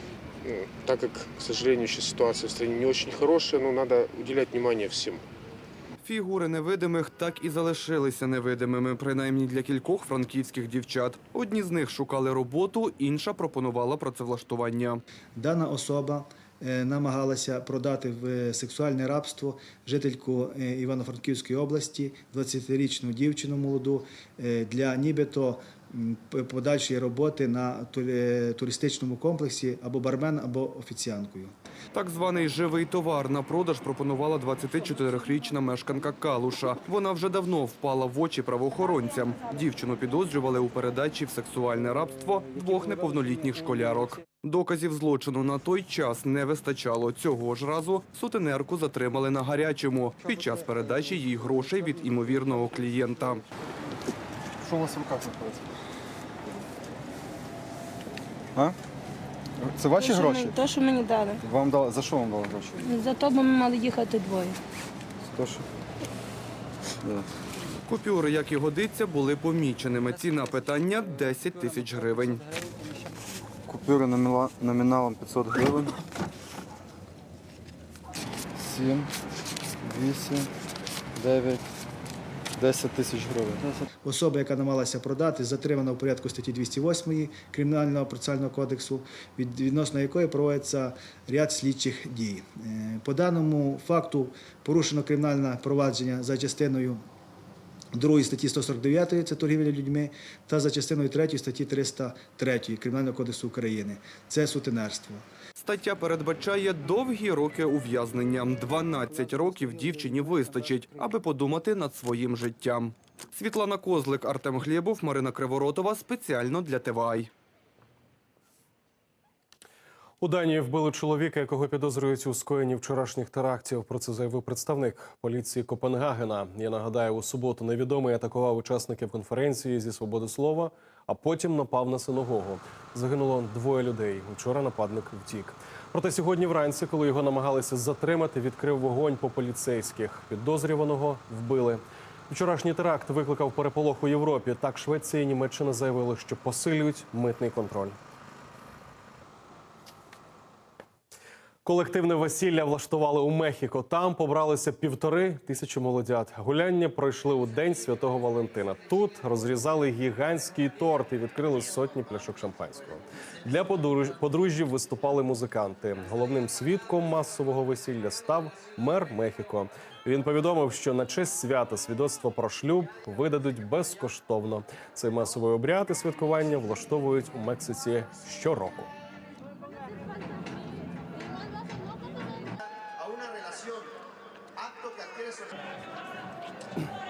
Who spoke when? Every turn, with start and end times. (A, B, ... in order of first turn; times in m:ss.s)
0:00.4-0:05.2 A
0:06.0-0:15.0 B
0:15.4-0:31.5 C
0:31.9-0:53.4 B
0:54.6-0:55.7 D
0:59.6-1:00.6 D
1:00.0-1:01.4 E
1:01.4-1:02.8 D
1:02.8-1:04.6 E
1:05.3-1:05.7 D
1:07.9-1:12.4 B
1:13.7-1:15.9 D
1:18.6-1:19.1 D
1:19.8-1:20.5 D
1:21.2-1:21.6 D
1:22.6-1:23.8 D
1:24.0-1:37.0 C
1:38.0-1:45.3 C
1:45.6-1:57.3 B
2:00.2-2:28.0 F
2:31.6-2:58.9 F